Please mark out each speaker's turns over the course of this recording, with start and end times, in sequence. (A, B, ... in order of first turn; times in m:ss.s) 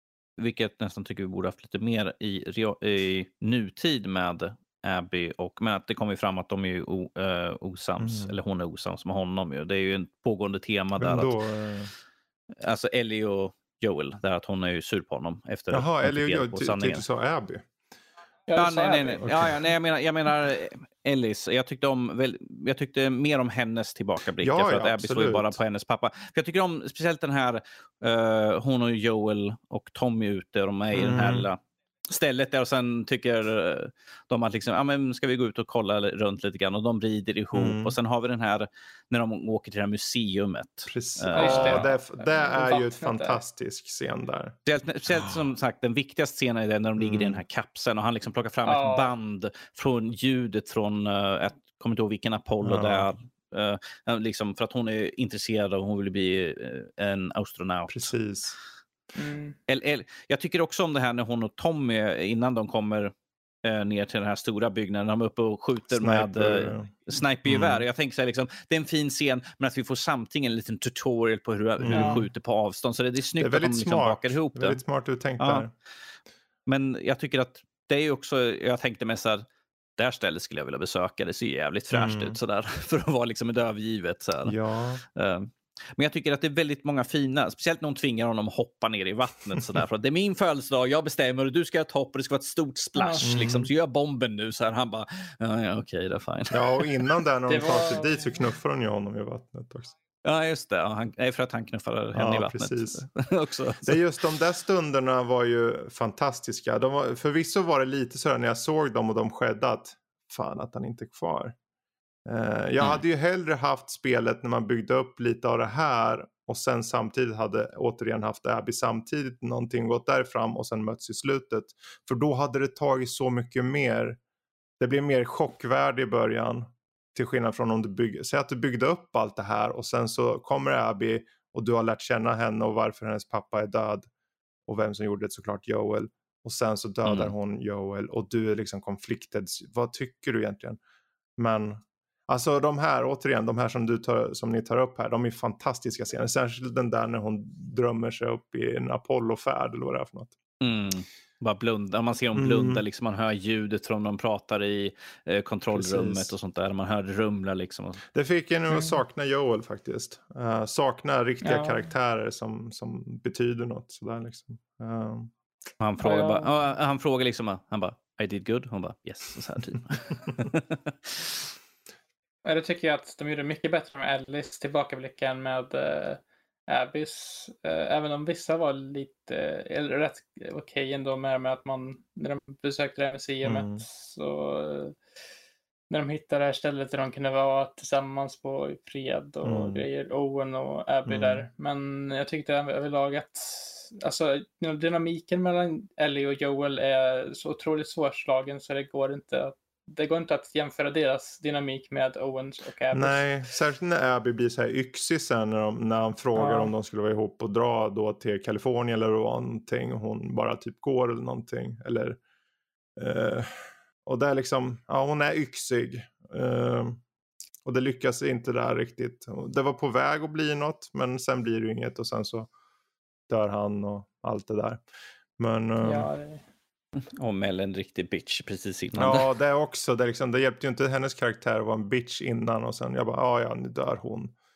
0:00.4-0:11.4 A
0:08.0-0:08.3 B
0:11.0-0:11.9 B
0:12.6-0:17.0 A
0:15.7-0:17.7 B
0:18.5-0:19.4 C
0:18.6-0:41.9 A
0:19.2-0:19.5 B
0:24.4-0:25.6 B
0:30.9-0:31.5 B
0:37.5-0:38.0 B
0:40.9-0:44.6 B
0:41.3-0:43.4 C
0:44.7-0:58.1 A
0:47.0-0:47.4 B
0:48.6-0:49.1 C
0:52.6-0:53.1 B
0:57.9-0:58.6 B
0:59.1-0:59.6 C
0:59.7-1:14.8 A
1:05.9-1:07.8 B
1:11.8-1:12.3 B
1:11.9-1:12.2 C
1:13.4-1:15.7 B
1:15.4-1:15.7 A
1:16.7-1:19.4 A
1:20.0-1:24.6 A
1:21.9-1:22.4 B
1:24.4-1:25.0 B
1:25.1-1:36.9 A
1:33.0-1:33.3 C
1:33.2-1:33.7 B
1:36.5-1:39.9 B
1:37.5-1:38.3 C
1:40.2-1:44.0 A
1:42.1-1:43.0 B
1:43.8-1:51.6 B
1:52.2-2:04.2 B
2:04.8-2:14.1 B
2:14.7-2:20.8 B
2:17.0-2:17.3 A
2:21.4-2:30.3 B
2:30.6-2:38.0 A
2:32.3-2:32.8 B
2:35.7-2:36.3 B
2:38.1-2:45.3 B
2:38.7-2:39.0 C
2:41.4-2:41.9 C
2:45.8-2:51.4 A
2:46.0-2:46.5 C
2:52.4-3:05.0 C
3:03.4-3:03.8 B
3:05.9-3:23.2 C
3:09.4-3:09.8 B
3:11.0-3:11.5 B
3:22.9-3:32.2 B
3:26.3-3:26.7 C
3:33.0-3:33.5 B
3:34.0-3:37.0 B
3:37.6-3:42.5 B
3:43.3-3:44.8 B
3:45.4-3:46.1 B
3:45.8-3:46.4 C
3:47.1-3:49.3 A
3:48.9-3:54.3 B